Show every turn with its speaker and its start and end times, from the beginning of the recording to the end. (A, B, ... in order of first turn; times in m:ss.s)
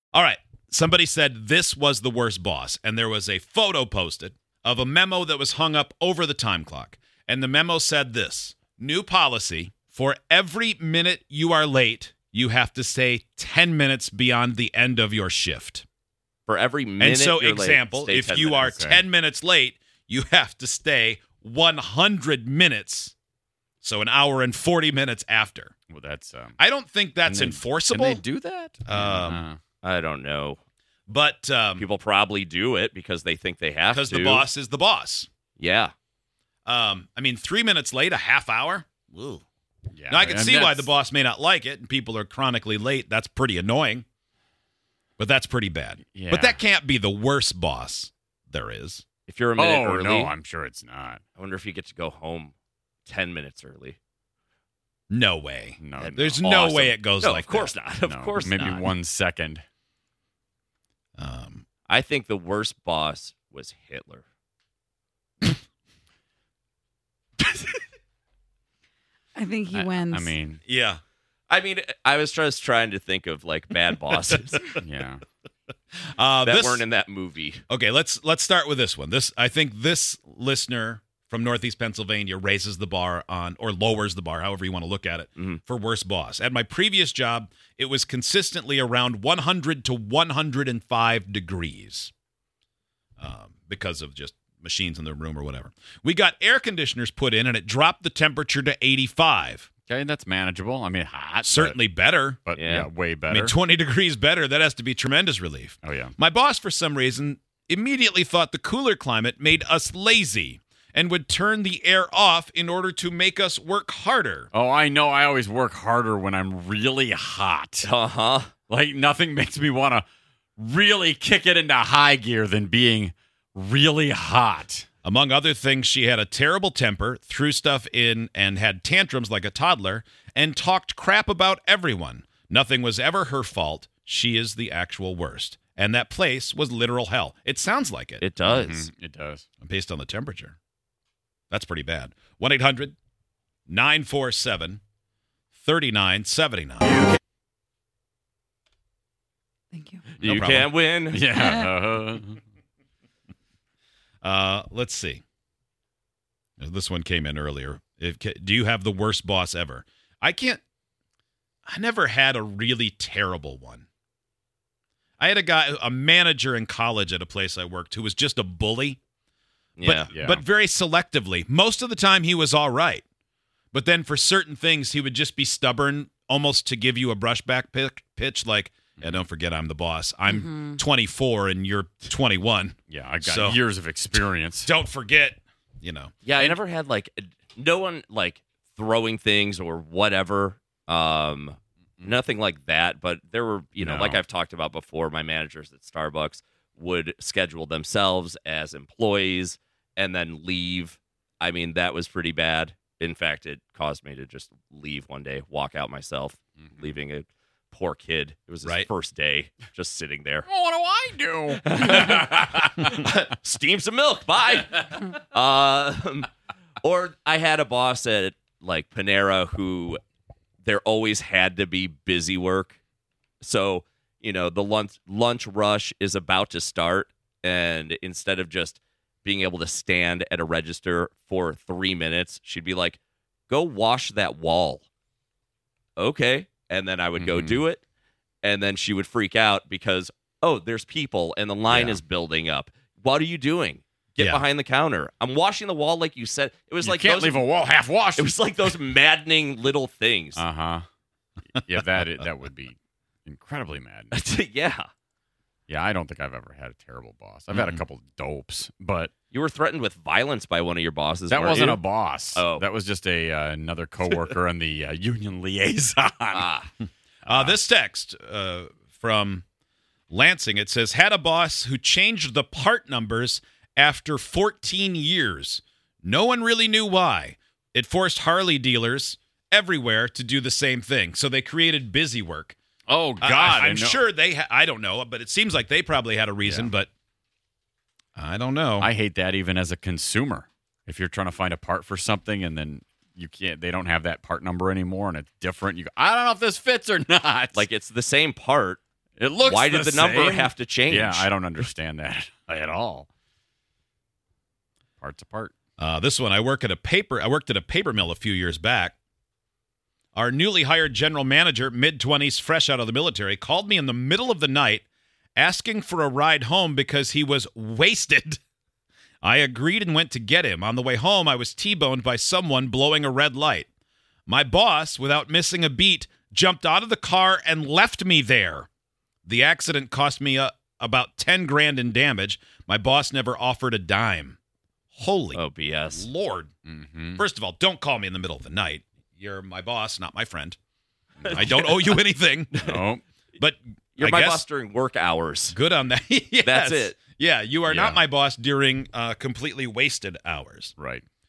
0:00.1-0:15.8 A
0:16.5-0:18.8 B
0:17.0-0:23.1 A
0:18.6-0:19.0 C
0:23.8-0:25.7 A
0:25.9-0:26.6 C
0:26.6-0:28.2 A
0:27.3-0:29.6 C
0:28.9-0:29.4 A
0:29.8-0:30.6 B
0:31.1-0:31.8 A
0:31.8-0:34.5 B
0:33.9-0:35.3 A
0:35.6-0:35.9 B
0:36.7-0:39.4 A
0:39.9-0:40.9 C
0:40.1-0:44.0 A
0:45.2-0:49.0 A
0:46.1-0:46.6 C
0:49.3-0:50.3 B
0:49.6-0:51.2 C
0:51.4-0:52.5 B
0:53.1-0:54.0 B
0:55.1-0:57.7 A
0:55.8-0:56.3 C
0:56.0-0:58.9 B
0:58.0-0:59.6 C
1:01.2-1:01.6 A
1:01.9-1:04.2 B
1:09.4-1:10.4 D
1:09.7-1:10.6 C
1:10.7-1:11.0 A
1:11.5-1:14.7 B
1:14.8-1:15.2 C
1:16.2-1:16.8 A
1:16.4-1:17.6 B
1:17.7-1:32.1 A
1:33.2-1:39.7 A
1:39.9-1:41.8 C
1:41.4-1:42.4 A
1:42.5-1:43.6 C
1:42.6-1:42.9 B
1:43.3-1:54.5 A
1:45.8-1:46.1 C
1:54.5-1:57.9 C
1:57.8-1:58.6 B
1:58.7-2:00.1 C
2:00.6-2:04.9 C
2:05.0-2:18.2 A
2:18.2-2:18.9 B
2:18.5-2:19.5 C
2:19.6-2:20.6 A
2:21.5-2:23.0 A
2:23.7-2:24.8 A
2:25.5-2:27.1 A
2:29.7-2:30.0 D
2:30.2-2:31.3 B
2:30.2-2:30.7 A
2:31.1-2:32.4 C
2:31.4-2:31.7 D
2:34.2-2:35.2 A
2:36.6-2:40.6 A
2:41.7-2:43.9 A
2:45.2-2:49.0 A
2:49.8-2:50.1 B
2:49.8-2:53.0 A
2:50.1-2:50.4 C
2:53.7-3:03.6 A
3:00.3-3:00.8 D
3:02.9-3:04.7 C
3:04.6-3:06.1 A
3:06.2-3:30.5 B
3:13.8-3:14.2 C
3:30.5-3:32.2 C
3:31.6-3:36.3 B
3:36.8-3:40.0 B
3:40.6-3:42.8 B
3:43.4-3:54.8 B
3:56.0-3:57.8 B
3:57.2-3:57.6 C
3:58.4-4:07.5 B
4:06.8-4:08.4 C
4:08.2-4:10.4 B
4:10.4-4:10.8 C
4:11.6-4:14.2 C
4:14.1-4:14.9 B
4:15.7-4:19.1 C
4:17.5-4:17.8 A
4:19.3-4:21.8 B
4:21.3-4:26.5 C
4:22.4-4:22.7 B
4:26.3-4:26.7 B
4:27.3-4:27.6 C
4:27.3-4:29.4 A
4:30.1-4:42.6 A
4:42.9-4:44.0 C
4:43.2-4:46.9 A
4:46.4-4:46.7 C
4:48.2-4:48.9 A
4:48.8-4:57.7 C
4:57.5-4:58.8 B
4:59.2-5:03.1 C
4:59.4-5:01.3 B
5:05.0-5:05.5 C
5:05.8-5:09.0 A
5:10.2-5:14.8 A
5:15.4-5:18.4 A
5:19.2-5:23.7 A
5:24.3-5:28.7 A
5:29.3-5:34.4 A
5:35.0-5:35.4 A
5:35.4-5:36.1 B
5:35.9-5:36.5 A
5:36.7-5:37.2 C
5:37.2-5:40.6 A
5:41.2-5:42.7 A
5:41.3-5:42.0 B
5:42.6-5:43.0 C
5:43.4-5:44.4 A
5:44.0-5:45.6 B
5:45.5-5:50.7 A
5:46.4-5:47.0 B
5:47.7-5:48.0 C
5:50.8-5:51.0 C